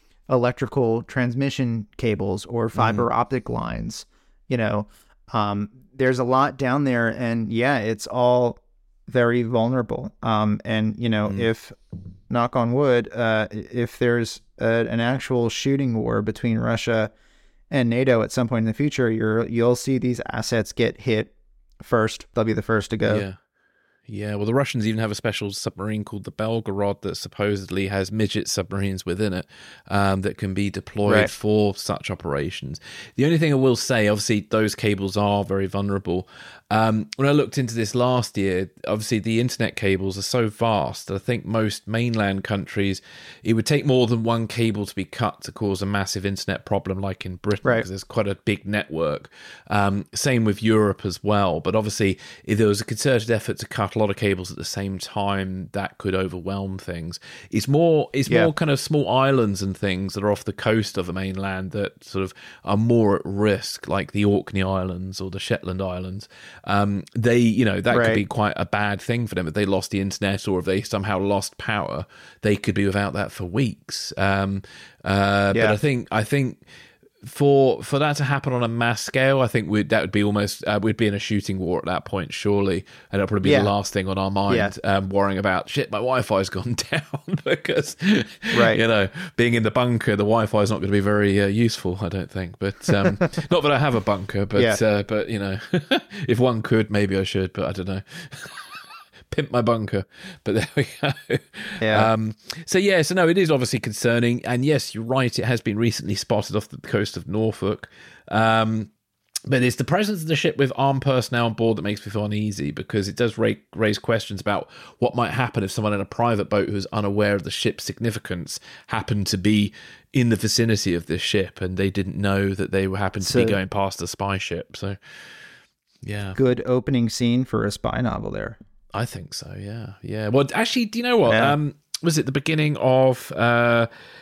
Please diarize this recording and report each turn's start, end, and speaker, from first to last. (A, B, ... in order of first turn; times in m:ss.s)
0:00.3-0:11.8 A
0:02.7-0:03.1 B
0:12.3-0:17.1 A
0:17.7-0:23.2 A
0:23.0-0:23.4 B
0:24.0-1:16.6 B
1:07.9-1:08.2 A
1:15.5-1:15.8 A
1:17.2-1:48.9 B
1:23.4-1:23.7 A
1:28.5-1:28.8 A
1:41.8-1:42.1 A
1:49.5-2:05.4 B
2:03.2-2:03.6 A
2:06.0-2:06.4 B
2:06.4-2:08.6 A
2:08.9-2:13.9 B
2:11.2-2:11.6 A